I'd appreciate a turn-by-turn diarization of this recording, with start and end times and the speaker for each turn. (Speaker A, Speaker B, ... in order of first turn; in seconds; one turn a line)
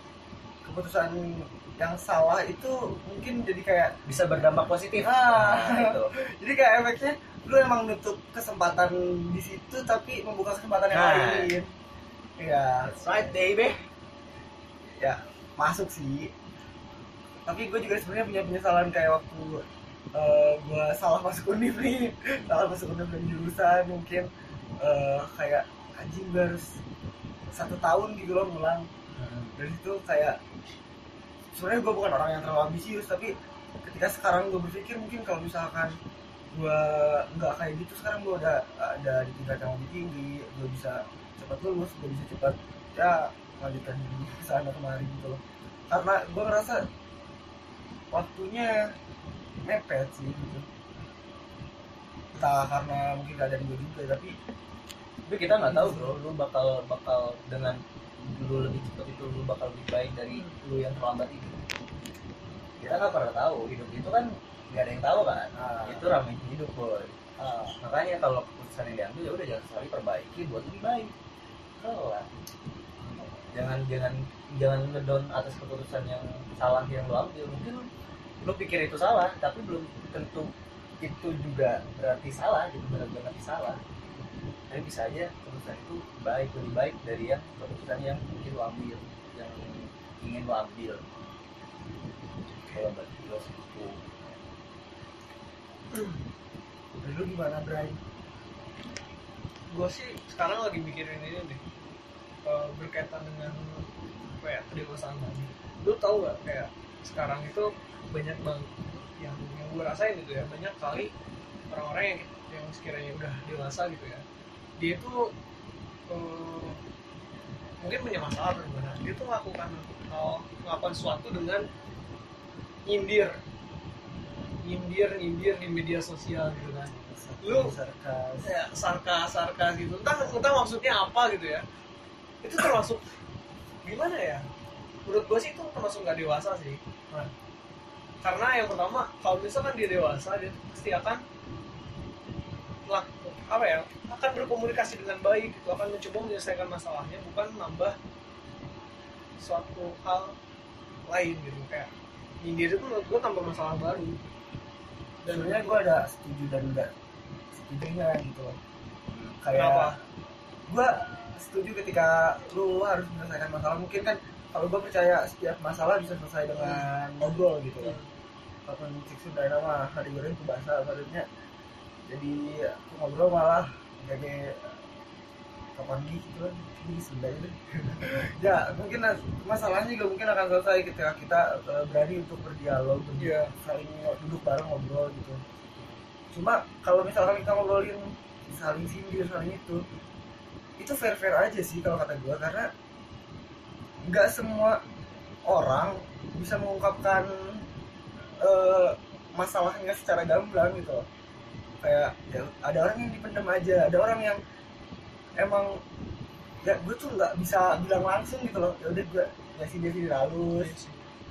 Speaker A: 0.6-4.4
Speaker B: 4.1-6.1
Speaker A: 5.0-11.7
Speaker B: 10.9-11.5
Speaker A: 12.4-13.3
Speaker B: 12.9-13.8
Speaker A: 15.0-16.3
Speaker A: 17.5-24.3
Speaker A: 24.8-26.7
Speaker A: 27.5-28.9
Speaker B: 29.1-29.6
Speaker A: 29.6-30.4
Speaker A: 31.5-36.0
Speaker A: 36.5-46.9
Speaker A: 48.1-48.8
Speaker A: 49.6-50.7
Speaker A: 52.4-54.4
Speaker B: 55.3-61.7
Speaker A: 55.6-56.2
Speaker A: 62.8-63.2
Speaker B: 62.8-67.2
Speaker A: 65.5-66.2
Speaker A: 67.4-67.8
Speaker B: 67.8-71.1
Speaker B: 71.8-72.3
Speaker A: 73.0-73.4
Speaker B: 73.5-77.9
Speaker B: 78.4-83.8
Speaker B: 84.7-91.0
Speaker B: 92.7-94.4
Speaker C: 95.9-96.2
Speaker A: 97.0-98.0
Speaker C: 99.7-101.6
Speaker C: 102.5-111.1
Speaker C: 111.7-114.2
Speaker C: 114.8-115.3
Speaker C: 116.1-116.8
Speaker C: 117.8-121.7
Speaker C: 122.9-123.4
Speaker C: 124.6-127.8
Speaker A: 126.9-128.5
Speaker C: 128.4-131.7
Speaker C: 132.4-133.0
Speaker C: 133.8-134.5
Speaker C: 135.1-137.3
Speaker C: 138.2-141.2
Speaker C: 142.9-148.0
Speaker C: 149.4-150.3
Speaker C: 151.1-154.2
Speaker C: 155.2-155.9
Speaker A: 155.3-156.9
Speaker A: 157.5-158.6
Speaker B: 159.1-159.4
Speaker A: 159.4-160.0
Speaker C: 159.5-160.0
Speaker A: 160.7-168.0
Speaker C: 166.6-166.9
Speaker C: 167.8-168.1
Speaker A: 168.7-171.3
Speaker A: 172.1-174.8
Speaker A: 175.8-185.4
Speaker C: 183.2-183.5
Speaker A: 186.3-189.8
Speaker A: 190.8-192.7
Speaker A: 194.1-194.8
Speaker A: 195.5-197.7
Speaker A: 198.4-201.1
Speaker A: 201.8-204.4
Speaker A: 205.3-205.8
Speaker A: 206.6-210.8
Speaker C: 210.6-211.1